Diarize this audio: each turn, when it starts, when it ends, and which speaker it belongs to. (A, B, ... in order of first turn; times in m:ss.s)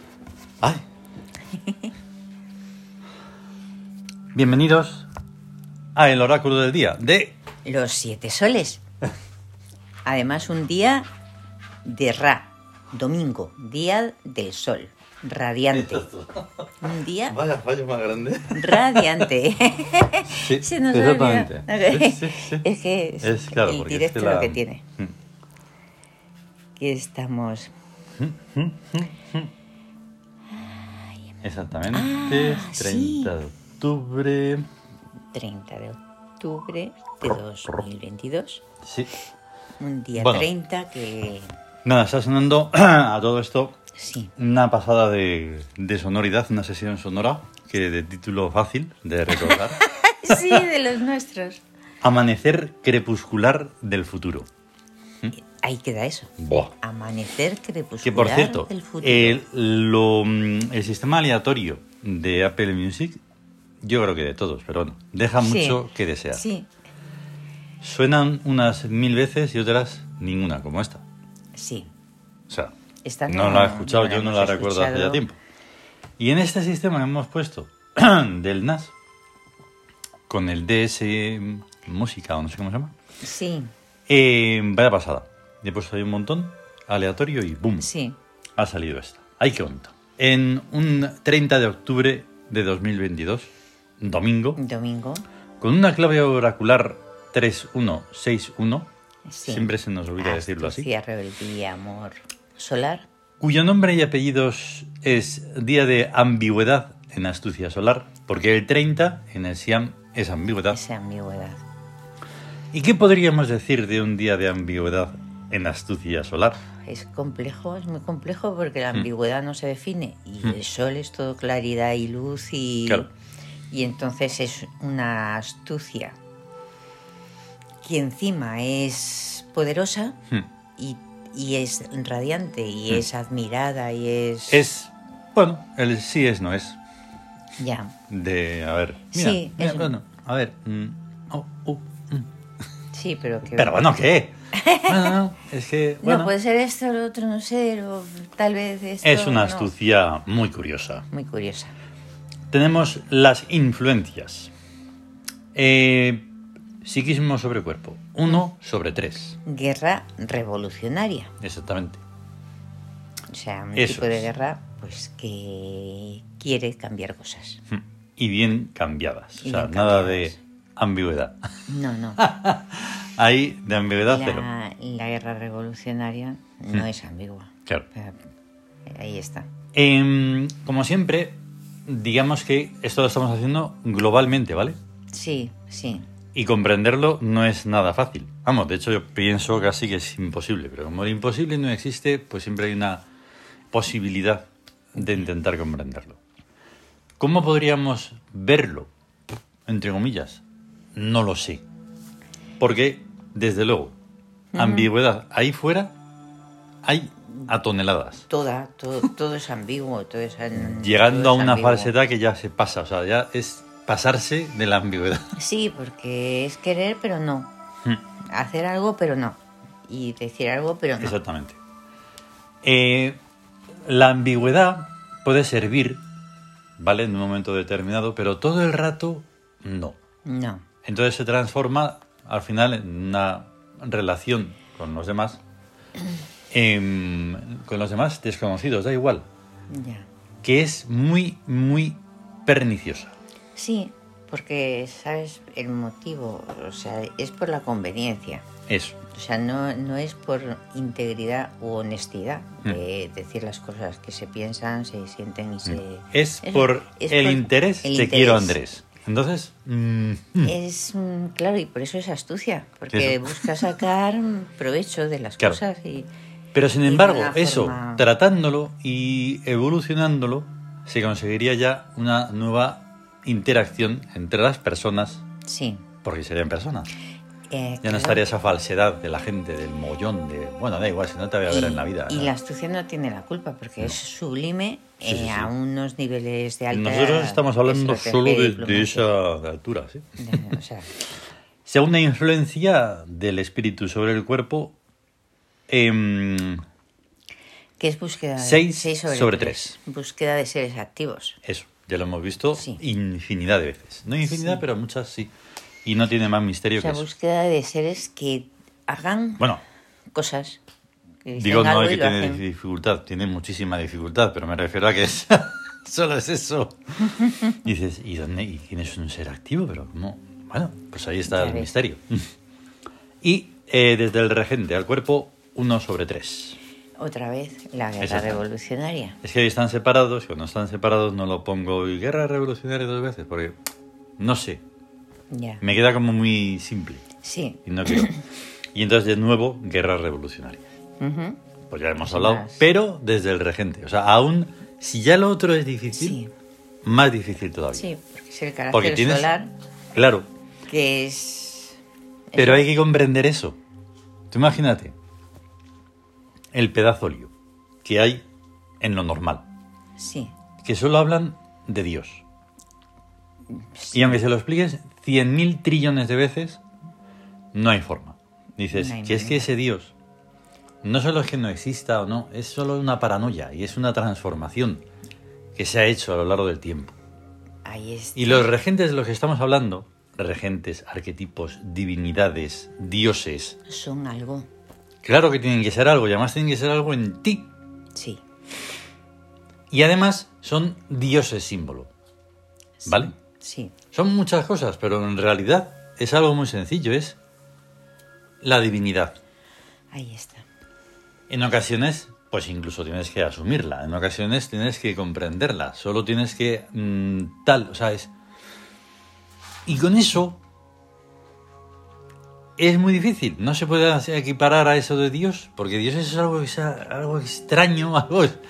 0:01.6-0:01.9 A
0:04.3-0:05.1 B
0:05.9-0:07.3 B
0:07.6-0:08.8 A
0:10.0-0:11.1 A
0:11.8-0:16.1 A
0:15.7-0:16.6 B
0:16.8-0:17.4 A
0:17.3-0:19.3 B
0:18.5-0:24.8 A
0:20.3-0:22.6 B
0:23.2-0:25.1 B
0:26.8-0:27.7 A
0:28.2-0:29.5 B
0:30.6-0:31.1 A
0:31.4-0:34.7 B
0:31.9-0:33.3 A
0:35.3-0:38.6 A
0:37.2-0:37.8 B
0:38.8-0:39.1 B
0:39.8-0:41.5 A
0:40.2-0:40.5 B
0:41.8-0:43.7 B
0:43.9-0:44.3 A
0:44.4-0:50.6 B
0:49.3-0:51.6 A
0:52.0-0:54.5 B
0:55.4-0:59.4 A
0:56.4-0:56.7 B
0:58.0-1:03.2 B
1:03.8-1:06.4 B
1:05.4-1:06.7 A
1:07.8-1:11.0 B
1:11.5-1:11.9 A
1:12.5-1:12.7 B
1:13.0-1:15.2 A
1:13.3-1:15.4 B
1:16.2-1:18.9 B
1:20.3-1:22.9 B
1:23.2-1:23.7 A
1:24.1-1:27.9 B
1:27.8-1:28.2 A
1:28.6-1:34.6 B
1:34.6-1:35.2 A
1:35.6-1:38.9 B
1:39.3-1:43.0 A
1:39.4-1:40.9 B
1:43.4-1:50.8 B
1:50.7-1:51.6 A
1:52.7-1:56.6 B
1:56.9-2:03.1 A
2:03.7-2:06.2 A
2:07.8-2:10.2 A
2:10.8-2:14.6 A
2:14.5-2:16.8 B
2:17.6-2:17.9 A
2:18.1-2:22.3 B
2:19.1-2:19.9 A
2:22.9-2:23.8 A
2:23.6-2:26.3 B
2:24.5-2:25.2 A
2:26.0-2:29.7 A
2:29.0-2:31.0 B
2:31.1-2:31.7 A
2:32.5-2:34.5 B
2:35.5-2:36.3 B
2:36.8-2:39.4 B
2:39.4-2:41.3 A
2:41.4-2:42.0 B
2:43.3-2:47.6 A
2:43.8-2:44.3 B
2:47.7-2:51.5 B
2:49.4-2:50.4 A
2:51.7-2:52.2 A
2:52.2-2:54.4 B
2:54.1-2:58.2 A
2:58.9-2:59.5 A
2:59.7-3:04.8 B
3:05.1-3:06.1 A
3:06.3-3:13.0 B
3:13.7-3:16.2 B
3:15.0-3:15.2 A
3:17.2-3:18.9 B
3:19.7-3:20.4 B
3:20.9-3:21.6 B
3:22.6-3:23.9 B
3:24.5-3:24.9 A
3:24.5-3:25.9 B
3:26.8-3:28.2 B
3:28.3-3:31.9 A
3:30.6-3:35.3 B
3:35.3-3:37.5 A
3:38.2-3:41.2 A
3:41.0-3:41.6 B
3:42.6-3:43.2 B
3:43.8-3:46.0 B
3:46.8-3:50.0 B
3:50.2-3:50.6 A
3:50.8-3:55.4 B
3:56.5-3:59.2 B
3:59.7-4:00.1 A
4:00.4-4:03.2 B
4:03.5-4:08.4 A
4:08.7-4:09.0 B
4:09.1-4:18.6 A
4:15.6-4:20.5 B
4:20.4-4:26.1 A
4:22.9-4:23.7 B
4:26.5-4:35.2 B
4:26.8-4:28.1 A
4:35.4-4:35.8 A
4:36.0-4:36.9 B
4:37.5-4:38.2 A
4:37.8-4:42.3 B
4:41.4-4:49.1 A
4:45.0-4:45.5 B
4:46.7-4:50.5 B
4:50.2-4:50.9 A
4:51.6-4:54.7 B
4:55.7-4:56.6 B
4:57.8-5:01.4 A
4:58.4-4:59.8 B
5:01.4-5:05.3 B
5:02.5-5:02.8 A
5:04.2-5:04.6 A
5:05.8-5:07.0 B
5:06.8-5:09.5 A
5:10.1-5:10.6 A
5:11.2-5:12.4 A
5:11.4-5:22.3 B
5:21.3-5:21.7 A
5:23.2-5:26.6 B
5:27.0-5:29.2 A
5:28.0-5:28.4 B
5:29.2-5:33.6 B
5:34.2-5:34.6 B
5:35.3-5:35.6 A
5:35.6-5:37.0 B
5:37.2-5:38.2 A
5:37.6-5:38.1 B
5:38.7-5:40.6 B
5:41.0-5:41.4 A
5:41.7-5:46.2 B
5:42.0-5:42.6 A
5:45.9-5:46.3 A
5:46.8-5:47.9 B
5:47.7-5:49.5 A
5:48.7-5:49.3 B
5:49.9-5:50.3 B
5:50.7-5:51.8 A
5:52.3-5:52.7 A
5:52.4-5:53.6 B
5:54.3-5:54.9 B
5:56.5-5:57.3 B
5:57.8-5:58.2 B
5:58.8-5:59.4 B
6:00.0-6:00.3 A
6:00.6-6:02.2 B
6:03.5-6:04.2 A
6:03.9-6:06.6 B
6:07.5-6:09.9 B
6:08.7-6:09.5 A
6:10.8-6:14.8 B
6:15.6-6:16.9 B
6:17.6-6:18.5 A
6:18.2-6:23.6 B
6:23.7-6:24.5 A
6:25.0-6:27.5 B
6:28.0-6:28.2 A
6:29.7-6:31.9 B
6:32.8-6:33.7 A
6:32.8-6:33.1 B
6:33.9-6:37.2 B
6:38.4-6:39.2 B
6:39.9-6:40.4 A
6:41.3-6:48.1 B
6:49.6-6:50.4 B
6:52.6-6:58.4 B